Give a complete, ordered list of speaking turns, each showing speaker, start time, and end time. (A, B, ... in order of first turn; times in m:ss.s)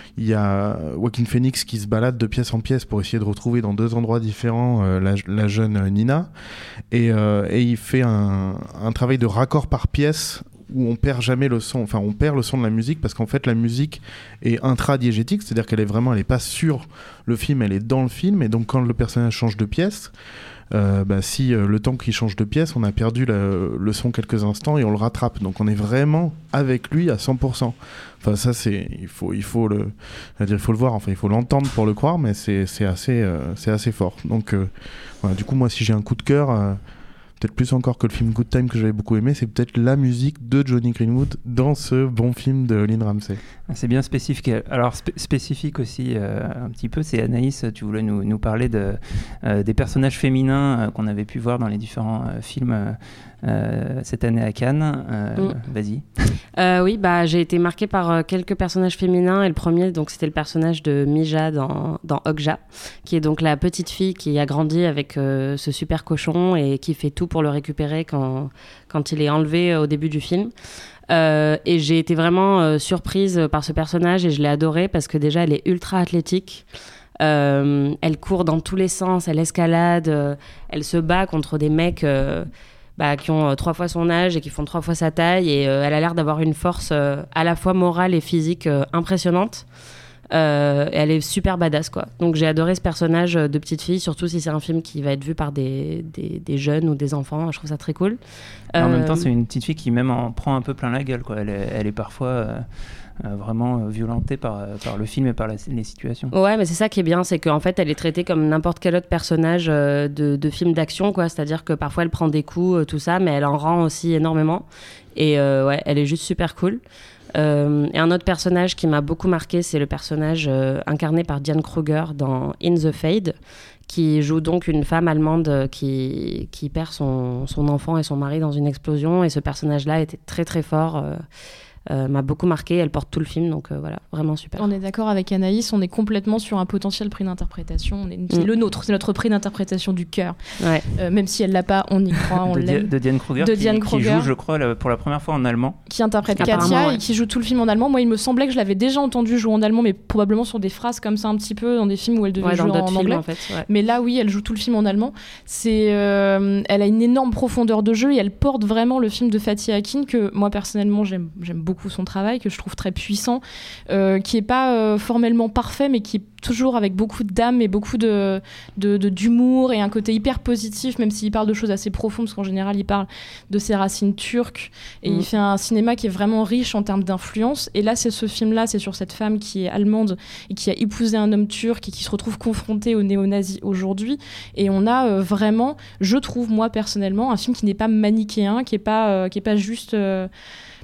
0:00.2-0:06.3 A
0:06.9-0:20.1 A
0:20.7-0:34.7 A
0:35.2-0:36.8 A
0:37.4-0:43.4 A
0:43.7-0:56.1 B
0:56.6-1:10.5 C
1:11.1-1:16.7 C
1:17.2-1:29.7 C
1:30.3-1:38.2 C
1:38.7-1:39.3 C
1:38.8-1:42.7 B
1:43.2-1:46.3 B
1:46.3-1:56.8 C
1:57.4-2:03.4 C
2:03.9-2:11.2 C
2:11.9-2:14.7 C
2:14.6-2:20.4 D
2:20.6-2:20.9 C
2:21.0-2:24.3 D
2:22.5-2:25.8 B
2:25.9-3:10.3 D
2:26.4-2:27.0 C
2:32.4-2:33.7 C